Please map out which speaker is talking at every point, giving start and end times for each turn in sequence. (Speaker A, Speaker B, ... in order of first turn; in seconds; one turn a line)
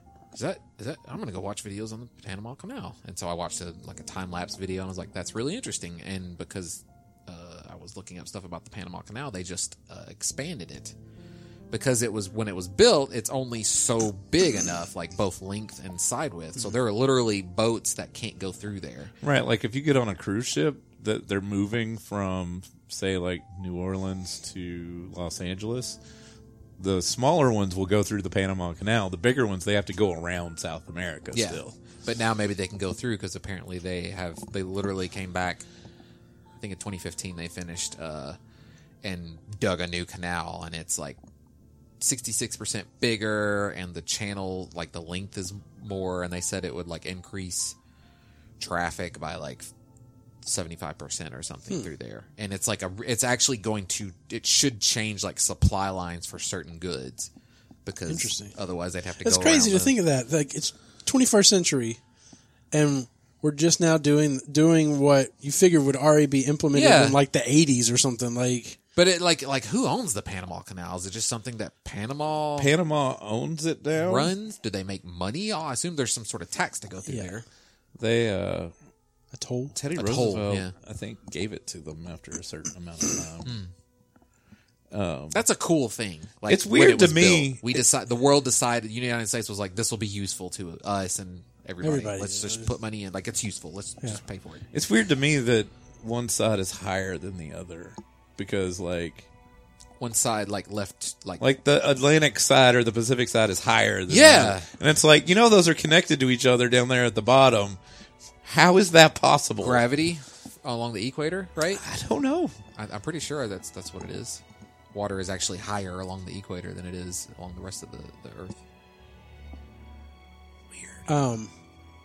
Speaker A: 0.3-10.9
Speaker A: 11.7-19.1
Speaker B: 19.2-26.0
Speaker B: 26.8-31.8
Speaker A: 31.3-35.6
Speaker A: 36.6-38.4
Speaker A: 39.0-41.2
Speaker A: 42.0-47.8
Speaker A: 48.6-49.7
Speaker A: 50.4-57.3
Speaker A: 57.9-59.9
Speaker C: 58.1-58.5
Speaker C: 59.2-62.0
Speaker C: 62.7-68.8
Speaker A: 66.7-67.2
Speaker A: 69.0-72.7
Speaker B: 72.6-74.3
Speaker A: 74.0-77.4
Speaker C: 77.0-77.3
Speaker B: 78.0-78.7
Speaker C: 79.3-79.8
Speaker B: 79.7-83.6
Speaker A: 79.9-80.7
Speaker A: 83.4-83.7
Speaker B: 84.9-85.4
Speaker A: 85.3-94.6
Speaker B: 86.5-87.8
Speaker C: 91.8-92.7
Speaker B: 94.7-99.3
Speaker A: 100.0-101.4
Speaker B: 101.4-107.8
Speaker A: 104.1-104.7
Speaker B: 108.4-109.8
Speaker A: 109.6-111.8
Speaker B: 111.7-112.5
Speaker A: 112.8-114.4
Speaker A: 114.9-118.6
Speaker B: 120.7-121.0
Speaker C: 121.1-121.5